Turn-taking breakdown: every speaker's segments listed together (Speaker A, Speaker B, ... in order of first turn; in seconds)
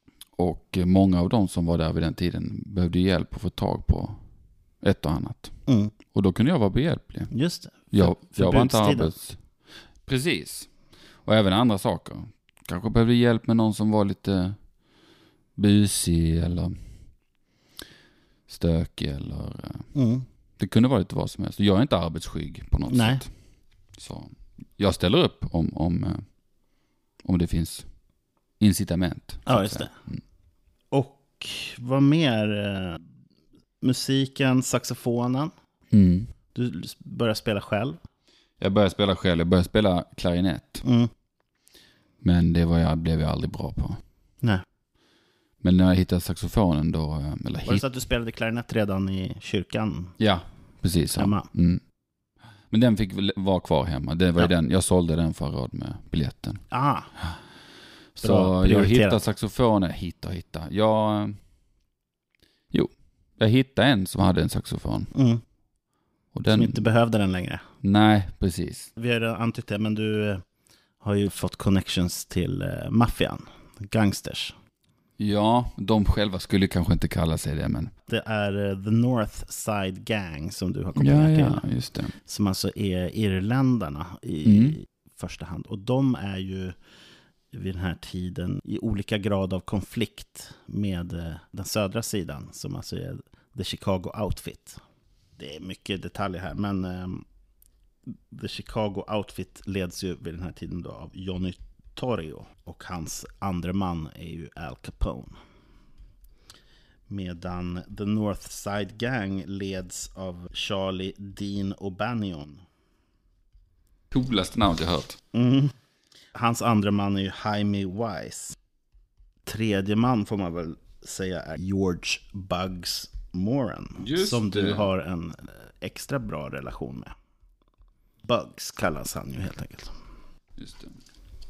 Speaker A: 0.4-4.2, 4.8-5.5, 6.1-7.3, 7.9-9.4, 10.1-10.7, 11.2-14.6, 15.6-16.8, 18.5-19.9, 20.6-23.3, 24.0-26.2, 27.2-27.9, 28.6-30.2, 35.9-36.3, 38.6-40.8, 42.2-44.0, 45.6-47.8, 50.2-51.8, 52.7-56.6, 58.1-61.4, 62.7-65.1, 66.3-66.8, 67.8-68.9, 75.2-77.9, 81.0-82.1, 84.4-84.8, 114.1-115.2, 124.0-124.9, 130.6-130.9
Speaker B: 5.7-5.9, 7.3-9.1, 19.9-20.2, 22.9-23.2, 29.4-29.9, 30.9-33.0, 33.8-35.5, 36.5-38.0, 40.8-41.1, 47.6-50.1, 51.1-51.5, 56.7-57.1, 58.2-59.2, 65.1-65.4, 66.5-67.6, 69.0-70.4, 71.0-74.5, 78.1-81.6, 82.2-86.8, 87.5-94.8, 95.4-97.2, 98.1-105.4, 107.1-112.6, 115.3-115.7, 116.3-118.5, 119.5-127.1, 128.2-129.9